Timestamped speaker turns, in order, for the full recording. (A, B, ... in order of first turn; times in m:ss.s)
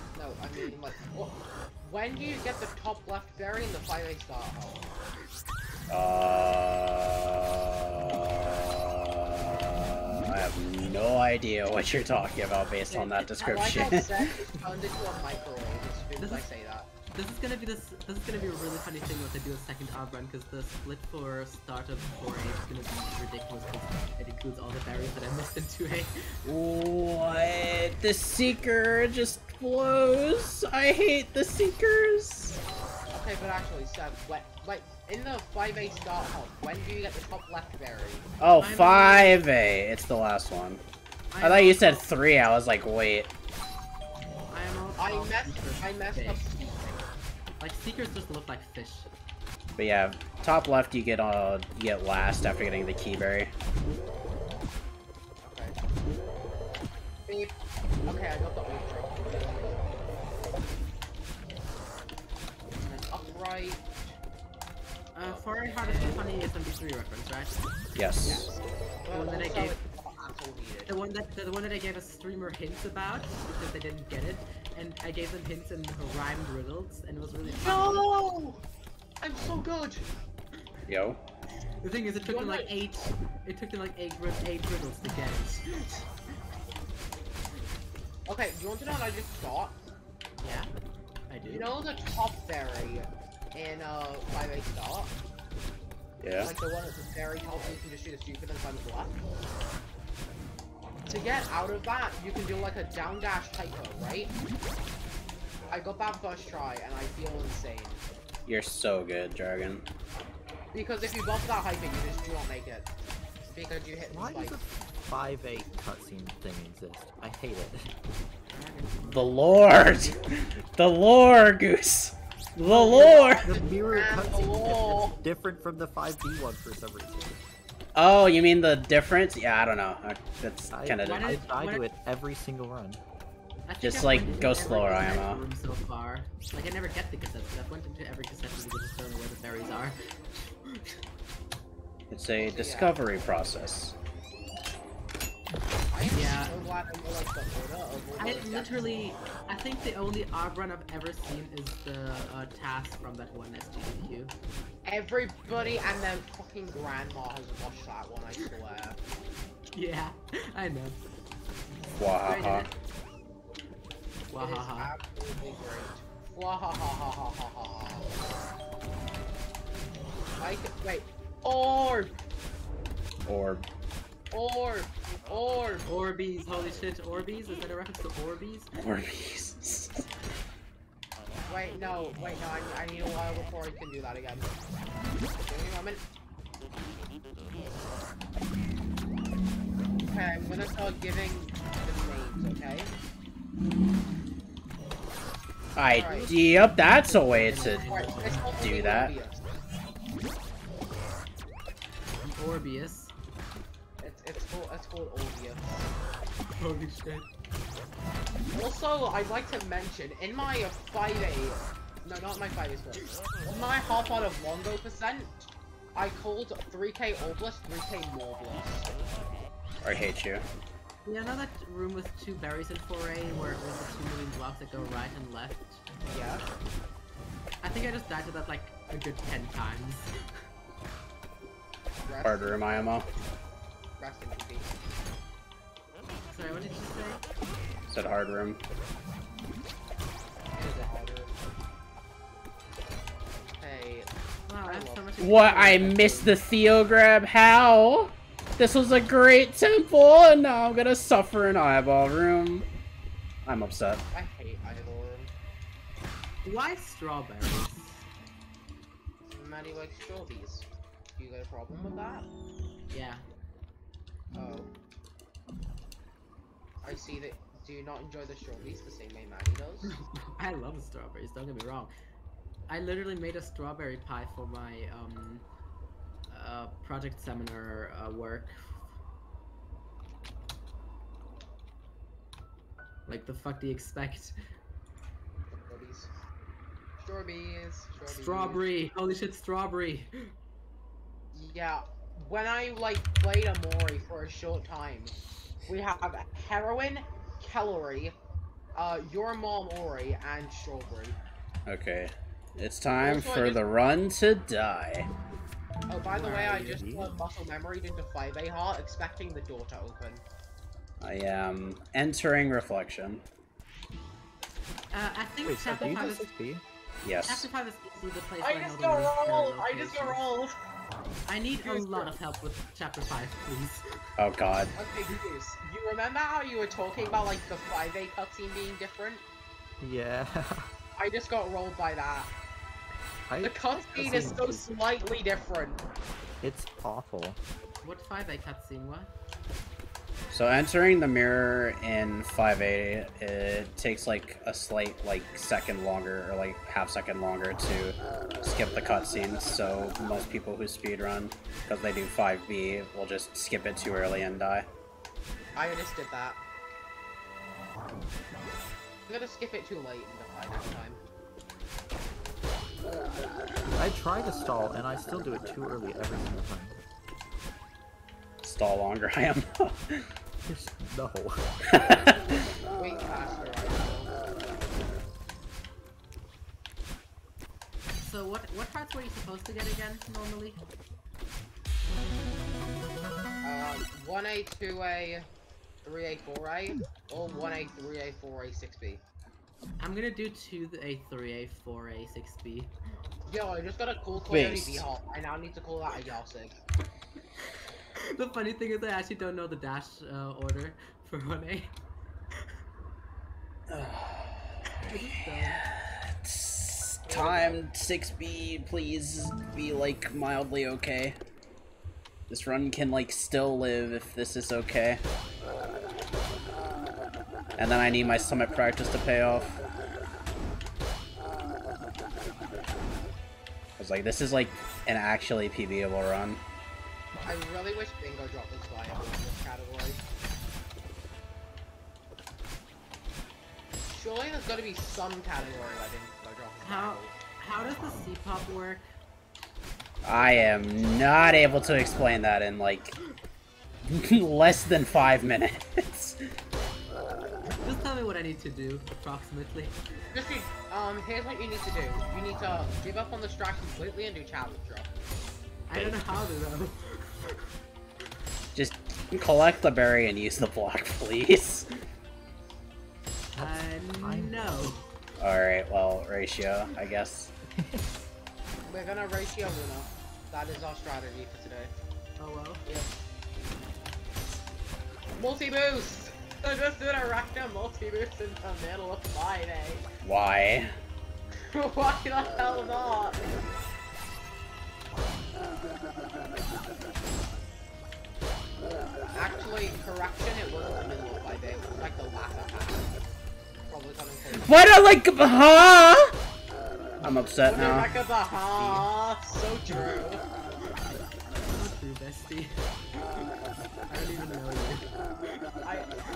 0:00.1-0:04.9 A
0:05.9-0:14.1 B
0:12.9-0:13.4 C
0:13.4-0:16.9 A
0:16.2-0:16.4 C
0:17.1-0:26.4 C
0:26.4-0:32.6 B
0:33.1-0:38.3 A
0:38.4-0:40.8 B
0:38.6-0:39.4 C
0:41.3-0:42.0 C
0:41.4-0:43.3 B
0:44.5-0:46.5 C
0:45.0-0:47.0 A
0:47.6-0:49.1 C
0:49.8-0:53.5 B
0:55.4-0:55.8 A
0:57.3-0:57.5 A
0:58.1-0:59.8 A
1:02.8-1:03.8 A
1:05.1-1:07.6 C
1:05.2-1:06.2 A
1:08.0-1:08.5 B
1:08.2-1:10.9 A
1:09.1-1:09.8 C
1:10.9-1:18.1 C
1:17.4-1:18.6 A
1:19.2-1:20.1 A
1:20.9-1:21.2 B
1:21.8-1:26.1 C
1:22.2-1:22.7 A
1:28.3-1:29.8 A
1:30.4-1:30.7 C
1:31.3-1:31.7 C
1:31.4-1:35.2 A
1:36.2-1:36.5 B
1:36.4-1:39.2 A
1:41.1-1:44.3 A
1:45.7-1:48.0 A
1:48.5-1:49.9 B
1:50.7-1:52.9 A
1:53.5-1:54.6 A
1:54.1-1:57.9 D
1:58.5-2:00.2 C
1:59.1-2:03.5 B
2:02.7-2:05.2 A
2:03.4-2:07.4 D
2:08.0-2:11.4 B
2:10.7-2:13.0 D
2:11.0-2:11.8 C
2:13.7-2:21.0 C
2:13.8-2:15.4 B
2:22.1-2:24.0 B
2:22.4-2:23.0 A
2:25.9-2:28.9 A
2:26.1-2:26.5 C
2:28.2-2:34.3 C
2:34.8-2:39.0 A
2:39.7-2:41.0 C
2:42.0-2:42.7 B
2:42.2-2:42.7 C
2:44.3-2:44.9 C
2:44.4-2:48.2 A
2:50.4-2:52.1 A
2:53.2-2:53.6 B
2:54.3-2:55.9 A
2:55.9-2:58.7 C
2:58.8-3:00.1 B
3:01.5-3:04.6 A
3:05.4-3:06.0 A
3:10.0-3:12.9 A
3:15.8-3:17.9 B
3:15.9-3:16.3 A
3:16.1-3:18.5 C
3:17.7-3:19.5 A
3:18.6-3:19.1 B
3:22.2-3:23.1 C
3:24.0-3:25.9 A
3:26.6-3:27.3 C
3:28.5-3:38.9 A
3:39.8-3:40.5 B
3:41.0-3:45.8 C
3:46.1-3:46.4 A
3:47.6-3:50.1 C
3:52.0-3:52.9 A
3:52.2-3:53.1 B
3:54.0-3:54.8 A
3:56.3-3:57.2 C
3:57.9-3:58.6 B
4:00.5-4:01.4 A
4:00.6-4:00.9 C
4:03.6-4:04.1 A
4:04.5-4:06.3 C
4:04.6-4:05.0 A
4:05.2-4:12.6 B
4:13.5-4:14.0 B
4:14.1-4:15.3 A
4:16.4-4:18.0 C
4:19.3-4:22.3 A
4:22.9-4:23.2 C
4:24.3-4:24.7 A
4:26.8-4:29.9 A
4:29.9-4:31.9 C
4:32.7-4:35.4 C
4:36.3-4:38.8 C
4:43.1-4:44.4 C
4:45.5-4:46.1 A
4:47.0-4:48.6 A
4:48.1-4:50.3 C
4:51.3-4:58.1 A
4:58.8-5:01.2 A
5:01.6-5:05.1 B
5:03.0-5:03.6 A
5:05.9-5:10.2 A
5:06.1-5:06.9 C
5:06.7-5:07.1 D
5:11.0-5:13.2 B
5:14.9-5:16.3 C
5:15.4-5:16.6 D
5:15.8-5:16.2 A
5:17.0-5:17.5 B
5:17.3-5:20.2 C
5:18.4-5:20.6 A
5:21.3-5:23.8 C
5:21.6-5:22.1 A
5:24.2-5:24.7 B
5:24.8-5:29.2 A
5:29.8-5:30.7 D
5:31.0-5:32.3 A
5:33.3-5:34.7 D
5:33.4-5:35.8 A
5:36.4-5:37.4 D
5:37.8-5:39.1 C
5:40.3-5:54.7 B
5:55.5-5:56.4 A
5:59.1-6:01.0 A
6:03.8-6:06.8 D
6:08.4-6:10.1 B
6:10.5-6:11.5 D
6:11.7-6:12.1 B
6:11.9-6:12.2 A
6:12.7-6:14.3 A
6:18.0-6:20.6 C
6:23.4-6:25.3 A
6:25.8-6:29.0 A
6:29.8-6:32.7 C
6:33.3-6:36.6 A
6:34.2-6:34.8 B
6:38.1-6:41.8 C
6:43.7-6:44.9 B
6:44.8-6:45.6 C
6:46.2-6:51.2 B
6:47.1-6:47.6 A
6:52.3-6:55.0 B
6:57.6-6:59.6 B
7:03.8-7:06.4 B
7:07.2-7:10.0 A
7:13.9-7:17.1 A
7:16.6-7:18.8 C
7:20.0-7:22.9 B
7:20.2-7:20.6 A
7:23.9-7:26.2 B
7:27.6-7:29.8 C
7:30.1-7:34.9 A
7:35.7-7:37.5 C
7:35.7-7:36.0 B
7:38.5-7:41.7 B
7:43.4-7:44.8 D
7:43.4-7:44.8 C
7:45.2-7:47.3 B
7:47.5-7:48.0 D
7:48.7-7:51.7 A
7:52.2-7:52.6 C
7:52.6-7:52.9 A
7:55.1-7:59.8 A
8:00.0-8:00.7 B
8:01.5-8:03.2 A
8:09.1-8:12.9 A
8:13.7-8:14.5 A
8:14.4-8:16.1 B
8:17.0-8:17.9 B
8:17.5-8:20.2 A
8:18.6-8:18.9 C
8:21.4-8:23.3 C
8:23.9-8:25.4 C
8:25.6-8:25.9 A